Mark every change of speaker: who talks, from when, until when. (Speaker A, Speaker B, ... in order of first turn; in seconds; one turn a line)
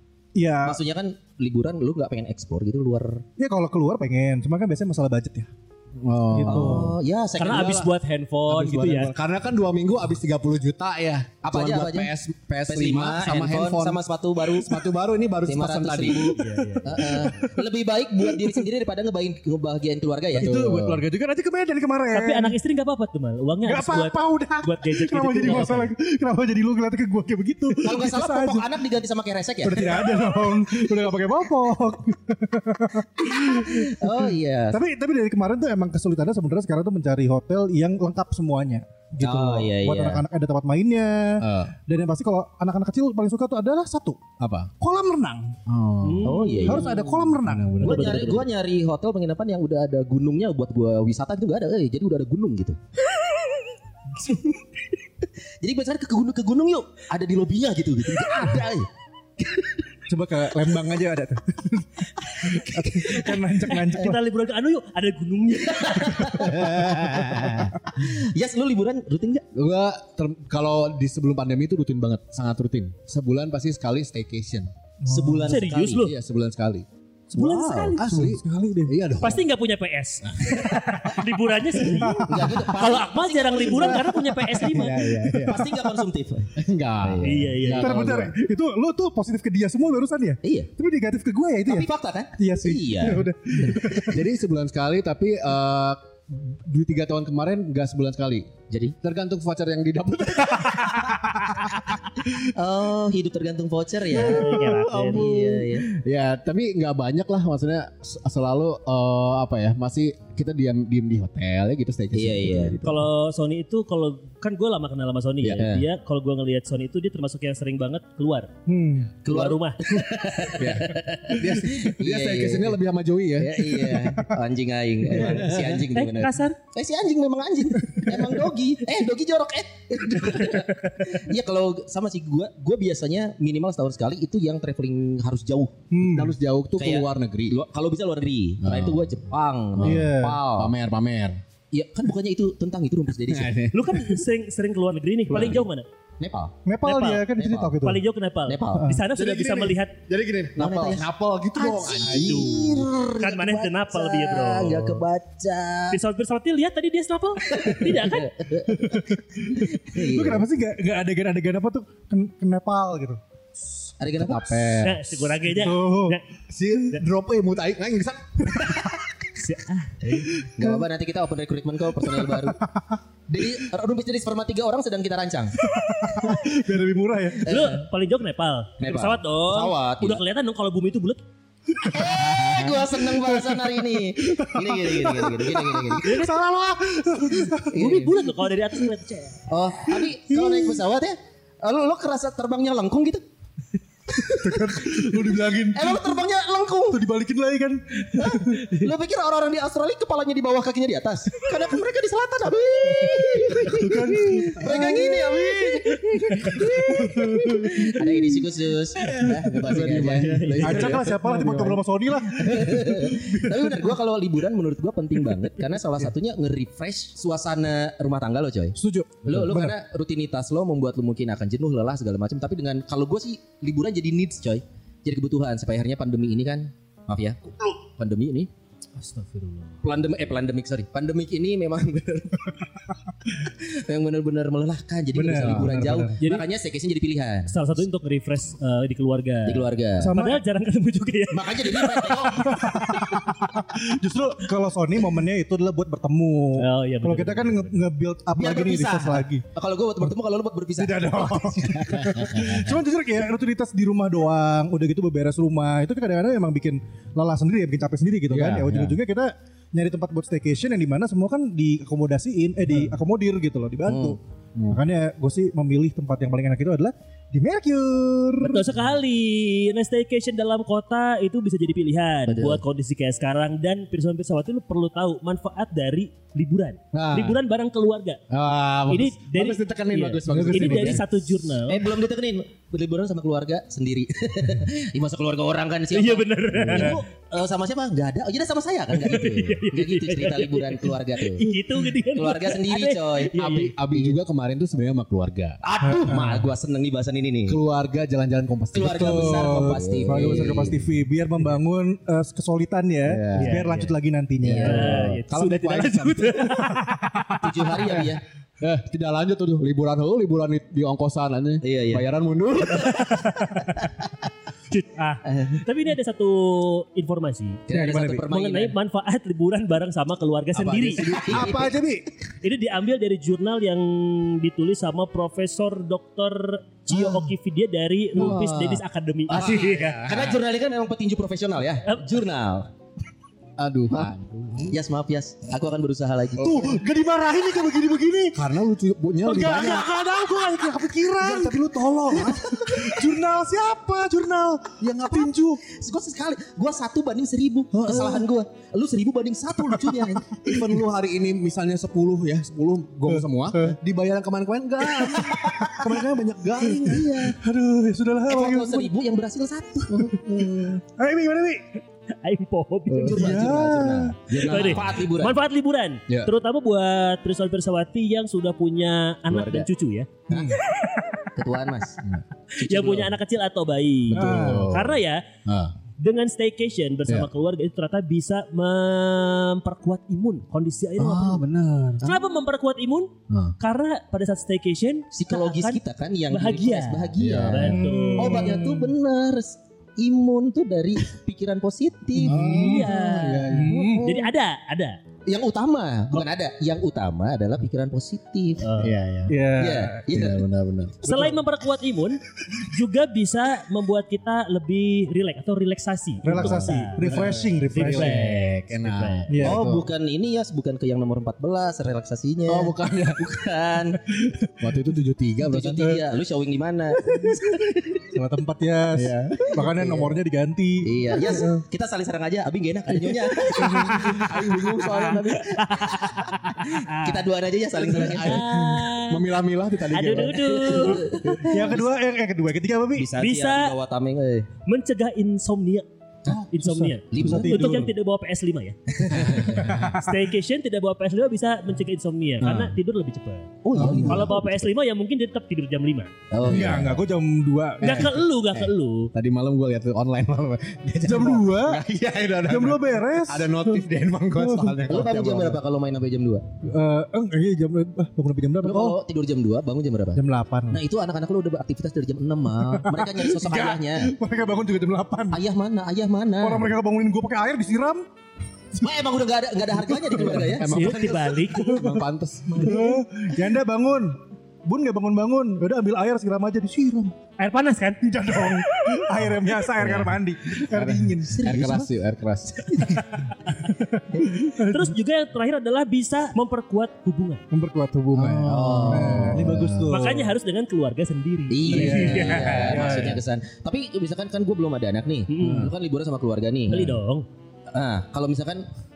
Speaker A: 0.3-0.8
Speaker B: 0.6-3.2
Speaker A: 3.4-5.5
Speaker C: 6.0-6.9
Speaker A: 6.3-7.0
Speaker B: 6.5-7.9
Speaker D: 7.4-9.2
Speaker C: 8.5-16.4
Speaker B: 11.4-12.1
Speaker B: 12.7-14.9
Speaker B: 15.4-20.6
Speaker D: 16.4-17.0
Speaker A: 16.6-17.6
Speaker A: 18.2-18.6
Speaker A: 20.3-22.6
Speaker C: 20.4-21.0
Speaker D: 22.1-25.9
Speaker A: 23.6-28.7
Speaker B: 27.8-30.0
Speaker A: 29.6-44.2
Speaker B: 33.2-34.8
Speaker B: 39.2-40.2
Speaker C: 41.4-41.7
Speaker C: 44.4-44.7
Speaker A: 44.8-45.6
Speaker C: 45.7-46.4
Speaker D: 46.0-47.3
Speaker B: 46.2-46.9
Speaker A: 46.6-48.0
Speaker C: 47.4-48.3
Speaker D: 47.8-48.5
Speaker B: 47.8-52.8
Speaker B: 55.6-59.8
Speaker A: 60.1-64.2
Speaker B: 62.3-63.4
Speaker D: 63.7-66.5
Speaker B: 65.6-69.5
Speaker C: 66.6-67.7
Speaker C: 69.5-74.7
Speaker A: 75.0-75.6
Speaker B: 75.1-76.1
Speaker D: 75.5-76.2
Speaker C: 76.0-76.9
Speaker B: 77.3-78.0
Speaker D: 77.3-78.3
Speaker C: 78.0-79.5
Speaker A: 78.0-79.0
Speaker D: 79.2-85.2
Speaker A: 81.9-82.7
Speaker B: 82.2-84.6
Speaker C: 84.6-85.7
Speaker A: 84.6-85.7
Speaker B: 85.5-87.7
Speaker C: 86.6-88.3
Speaker D: 87.2-88.0
Speaker A: 87.8-94.2
Speaker B: 90.4-90.7
Speaker B: 91.7-94.2
Speaker C: 94.0-101.5
Speaker B: 98.7-99.0
Speaker B: 102.4-105.9
Speaker D: 104.1-105.4
Speaker C: 104.5-113.1
Speaker B: 112.1-112.8
Speaker D: 112.8-118.5
Speaker C: 115.4-115.7
Speaker B: 115.6-115.8
Speaker A: 118.7-119.1
Speaker B: 119.2-122.8
Speaker D: 119.3-119.8
Speaker C: 120.6-124.0
Speaker B: 123.4-135.8
Speaker C: 125.2-125.8
Speaker D: 125.9-126.6
Speaker A: 135.9-136.4
Speaker C: 136.0-137.6
Speaker B: 136.8-140.7
Speaker C: 138.6-139.1
Speaker C: 139.8-141.4
Speaker A: 139.8-140.4
Speaker B: 141.7-143.5
Speaker C: 143.3-144.2
Speaker D: 143.7-145.9
Speaker B: 145.3-145.6
Speaker C: 145.3-145.6
Speaker B: 146.2-146.5
Speaker A: 146.7-148.0
Speaker D: 146.8-150.0
Speaker B: 147.4-147.7
Speaker B: 148.5-148.9
Speaker A: 148.7-149.1
Speaker C: 149.1-152.9
Speaker B: 150.6-156.0
Speaker D: 153.2-155.0
Speaker D: 155.9-158.3
Speaker B: 157.5-160.5
Speaker A: 158.7-163.2
Speaker B: 164.0-164.8
Speaker C: 164.2-165.0
Speaker D: 164.8-166.2
Speaker A: 165.5-166.2
Speaker C: 166.5-169.0
Speaker D: 169.4-170.3
Speaker B: 170.6-172.6
Speaker A: 172.0-173.0
Speaker B: 173.3-175.6
Speaker A: 175.6-177.5
Speaker D: 177.4-181.2
Speaker B: 177.5-177.8
Speaker B: 178.8-180.2
Speaker A: 181.8-188.3
Speaker B: 181.8-186.1
Speaker D: 186.0-186.3
Speaker B: 187.7-188.1
Speaker D: 187.7-189.4
Speaker B: 189.5-193.2
Speaker A: 190.0-190.8
Speaker B: 194.1-197.0
Speaker A: 194.2-196.3
Speaker A: 196.9-198.8
Speaker B: 198.2-211.0
Speaker A: 203.5-208.2
Speaker C: 209.0-211.8
Speaker D: 210.2-211.0
Speaker A: 210.6-213.9
Speaker B: 212.4-228.5
Speaker A: 218.8-219.8
Speaker D: 229.0-229.8
Speaker B: 229.8-232.5
Speaker B: 233.4-237.6
Speaker A: 235.1-236.2
Speaker C: 235.4-235.7
Speaker D: 237.5-242.5
Speaker B: 239.4-240.1
Speaker A: 240.0-240.4
Speaker B: 241.3-242.6
Speaker A: 242.3-249.4
Speaker D: 246.6-247.9
Speaker B: 248.3-252.5
Speaker A: 250.8-268.8
Speaker C: 252.1-252.7
Speaker C: 258.3-259.0
Speaker B: 263.9-264.2
Speaker D: 268.4-278.2
Speaker B: 272.3-272.6
Speaker C: 276.9-277.4
Speaker C: 278.3-281.1
Speaker D: 278.9-281.9
Speaker A: 280.3-281.0
Speaker B: 281.7-291.5
Speaker D: 285.9-287.0
Speaker C: 286.6-286.9
Speaker D: 288.9-293.8
Speaker B: 292.1-293.4
Speaker C: 293.4-295.6
Speaker B: 295.6-297.6
Speaker A: 295.8-296.5
Speaker C: 297.5-300.8
Speaker B: 298.7-300.8
Speaker A: 298.8-305.1
Speaker C: 303.1-303.8
Speaker D: 303.4-303.8
Speaker B: 304.4-305.1
Speaker C: 304.4-306.4
Speaker D: 304.6-307.3
Speaker A: 306.6-307.9
Speaker B: 307.4-308.2
Speaker C: 308.6-313.3
Speaker B: 311.6-312.1
Speaker D: 314.7-317.6
Speaker B: 315.3-315.6
Speaker B: 317.7-318.8
Speaker A: 317.7-318.3
Speaker D: 318.3-321.2
Speaker C: 320.6-321.7
Speaker B: 321.0-321.7
Speaker A: 321.2-322.1
Speaker D: 322.4-330.0
Speaker C: 328.2-328.8
Speaker B: 328.2-328.7
Speaker B: 329.3-332.7
Speaker C: 329.3-330.4
Speaker C: 333.6-334.8
Speaker B: 334.7-336.7
Speaker A: 336.4-338.4
Speaker C: 336.4-336.7
Speaker C: 338.3-339.9
Speaker A: 339.2-345.6
Speaker C: 341.2-342.3
Speaker B: 342.1-343.0
Speaker C: 344.8-345.3
Speaker B: 345.6-350.4
Speaker A: 347.8-348.2
Speaker C: 347.9-348.2
Speaker A: 349.8-350.8
Speaker C: 350.4-357.1
Speaker A: 353.1-353.8
Speaker A: 355.1-356.1
Speaker B: 355.1-355.6
Speaker A: 356.8-358.9
Speaker B: 356.8-357.4
Speaker B: 358.3-360.2
Speaker A: 359.9-361.8
Speaker C: 360.1-360.6
Speaker D: 362.2-363.3
Speaker C: 362.9-363.2
Speaker B: 363.0-365.4
Speaker A: 363.0-364.4
Speaker D: 364.4-370.1
Speaker B: 369.3-369.7
Speaker B: 370.3-370.6
Speaker A: 370.3-370.6
Speaker B: 371.4-372.0
Speaker B: 372.6-373.1
Speaker D: 372.6-375.2
Speaker A: 374.1-374.8
Speaker C: 374.1-375.7
Speaker D: 376.0-381.4
Speaker C: 381.0-382.1
Speaker D: 382.0-388.5
Speaker B: 385.1-392.7
Speaker C: 387.2-388.1
Speaker A: 387.7-388.9
Speaker C: 392.2-393.9
Speaker A: 392.2-392.9
Speaker D: 392.4-395.0
Speaker A: 393.5-394.2
Speaker B: 393.7-394.3
Speaker B: 395.3-398.7
Speaker D: 398.6-399.0
Speaker C: 398.8-399.4
Speaker A: 399.3-400.0
Speaker B: 399.6-400.5
Speaker C: 400.1-401.2
Speaker D: 401.0-409.3
Speaker B: 401.1-401.4
Speaker A: 406.2-408.2
Speaker C: 406.3-409.9
Speaker A: 409.3-409.6
Speaker B: 409.4-414.0
Speaker C: 412.5-413.3
Speaker A: 414.2-414.8
Speaker C: 414.6-416.0
Speaker B: 415.4-418.0
Speaker A: 417.0-417.6
Speaker A: 418.1-421.6
Speaker C: 418.9-419.6
Speaker B: 419.7-420.1
Speaker B: 420.8-428.4
Speaker C: 423.3-425.5
Speaker A: 423.5-424.1
Speaker D: 425.0-426.3
Speaker D: 426.9-427.2
Speaker D: 427.9-429.3
Speaker C: 427.9-431.0
Speaker D: 429.9-431.4
Speaker B: 430.4-431.9
Speaker A: 431.4-433.1
Speaker B: 432.9-434.5
Speaker D: 433.2-433.7
Speaker D: 434.7-435.9
Speaker A: 436.3-437.9
Speaker D: 436.5-446.1
Speaker B: 437.1-437.8
Speaker B: 439.0-439.6
Speaker C: 439.2-439.9
Speaker A: 439.6-440.2
Speaker C: 442.4-442.7
Speaker B: 443.6-444.5
Speaker A: 443.8-444.3
Speaker C: 443.8-444.3
Speaker B: 446.3-446.9
Speaker C: 446.4-447.0
Speaker A: 446.4-448.2
Speaker C: 447.8-455.6
Speaker D: 447.8-449.1
Speaker A: 451.0-451.8
Speaker A: 452.4-455.1
Speaker B: 454.9-456.4
Speaker A: 456.6-459.0
Speaker B: 458.6-464.1
Speaker A: 460.1-460.8
Speaker A: 462.6-465.4
Speaker B: 465.3-466.7
Speaker A: 466.4-468.0
Speaker B: 468.8-470.9
Speaker C: 470.0-472.8
Speaker A: 470.1-470.5
Speaker D: 470.7-471.9
Speaker A: 471.6-472.1
Speaker D: 472.5-472.9
Speaker A: 472.6-477.1
Speaker D: 477.4-479.1
Speaker A: 478.0-481.9
Speaker C: 479.8-483.2
Speaker B: 481.3-481.9
Speaker B: 482.7-483.1
Speaker A: 483.7-485.0
Speaker D: 484.5-487.4
Speaker A: 487.5-490.3
Speaker C: 488.2-490.1
Speaker B: 488.4-489.5
Speaker D: 489.9-492.9
Speaker B: 491.5-496.9
Speaker A: 491.7-493.2
Speaker C: 491.7-493.2
Speaker D: 495.3-495.7
Speaker C: 495.4-495.7
Speaker D: 496.7-497.3
Speaker B: 497.7-498.7